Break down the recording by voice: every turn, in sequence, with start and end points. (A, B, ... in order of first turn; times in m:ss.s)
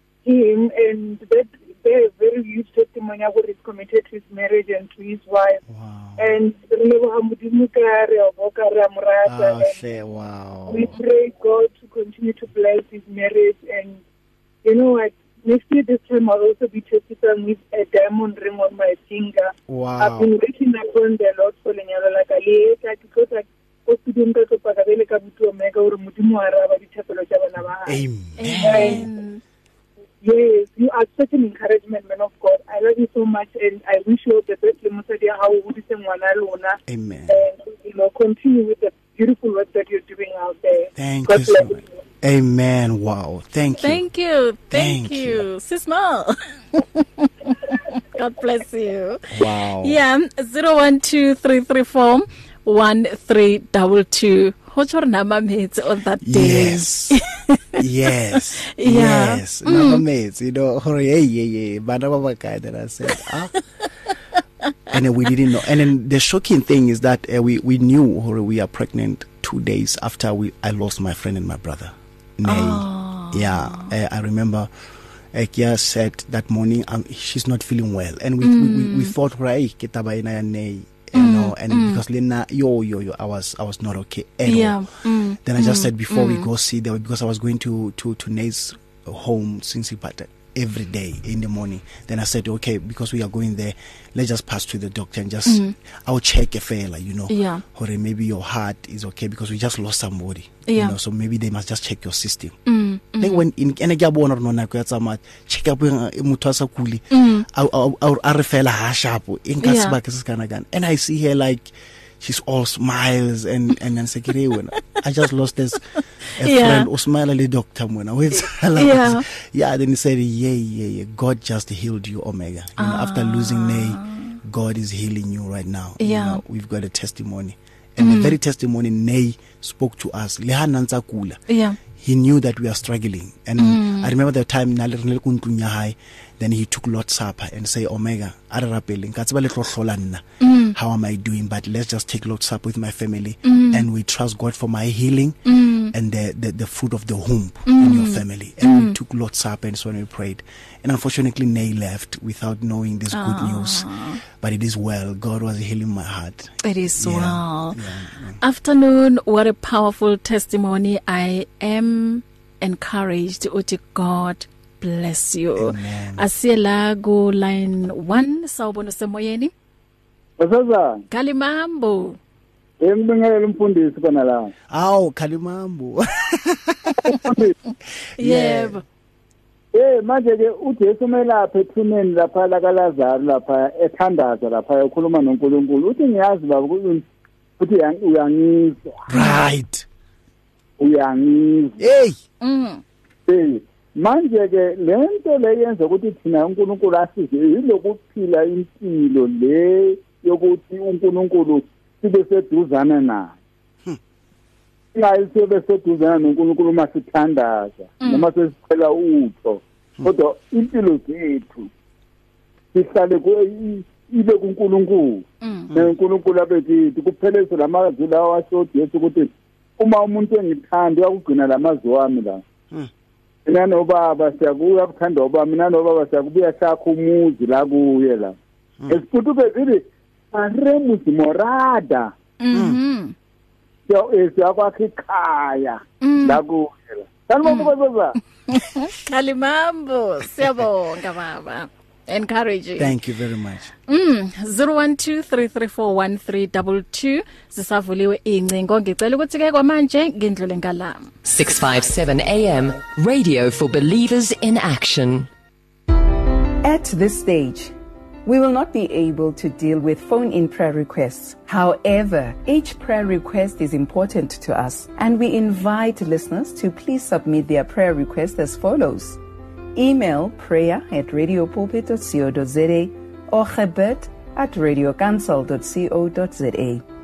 0:00.2-0:05.6 A
0:05.7-0:06.4 B
0:06.2-0:09.8 A
0:09.2-0:10.9 B
0:10.7-0:14.0 A
0:14.6-0:28.0 A
0:19.7-0:20.3 B
0:27.8-0:29.1 B
0:28.4-0:29.4 C
0:28.6-0:29.1 A
0:30.2-0:41.8 A
0:36.9-0:37.5 B
0:41.0-0:44.0 B
0:43.8-0:57.8 C
0:44.7-0:45.5 B
0:49.3-0:50.0 B
0:56.2-0:57.2 B
0:57.8-1:03.6 B
0:58.4-1:00.0 C
1:04.9-1:14.7 B
1:12.4-1:13.9 C
1:15.3-1:24.8 B
1:18.4-1:19.1 C
1:21.2-1:22.0 C
1:24.5-1:26.5 C
1:25.4-1:42.6 B
1:35.5-1:35.7 C
1:37.3-1:37.6 C
1:40.7-1:41.0 C
1:42.7-1:43.4 C
1:43.2-1:55.8 B
1:47.1-1:47.5 C
1:49.6-1:50.0 C
1:56.4-2:11.4 B
1:56.4-1:56.9 C
1:58.3-1:59.2 C
2:02.8-2:04.4 C
2:06.0-2:06.4 C
2:08.0-2:08.4 C
2:11.5-2:11.8 C
2:12.0-2:25.4 B
2:13.6-2:14.1 C
2:20.4-2:20.8 C
2:23.5-2:23.9 C
2:25.5-2:25.9 C
2:25.9-2:33.9 B
2:27.7-2:29.0 C
2:33.1-2:34.2 C
2:34.4-2:38.4 B
2:36.6-2:37.8 C
2:38.4-2:49.5 C
2:45.6-2:46.3 B
2:50.4-2:51.0 D
2:51.1-2:52.2 C
2:52.8-2:54.5 D
2:54.7-2:57.1 B
2:57.0-2:57.5 D
2:58.2-2:58.8 C
2:58.2-2:58.7 B
2:59.7-3:07.0 D
3:07.6-3:09.0 D
3:09.1-3:09.9 B
3:09.1-3:09.4 C
3:10.8-3:11.8 D
3:11.8-3:12.2 B
3:12.4-3:12.8 C
3:13.3-3:23.4 D
3:24.9-3:31.7 D
3:28.0-3:28.3 C
3:32.7-3:42.4 D
3:35.4-3:35.7 C
3:43.5-3:48.4 D
3:48.9-3:52.1 D
3:52.4-3:53.2 C
3:52.5-3:52.8 B
3:53.9-3:58.2 D
3:56.0-3:56.4 C
3:57.4-3:57.7 C
3:58.5-4:03.0 C
4:02.8-4:03.7 B
4:03.9-4:11.1 C
4:11.2-4:15.3 E
4:16.6-4:17.7 F
4:18.2-4:29.2 F
4:29.8-4:36.8 F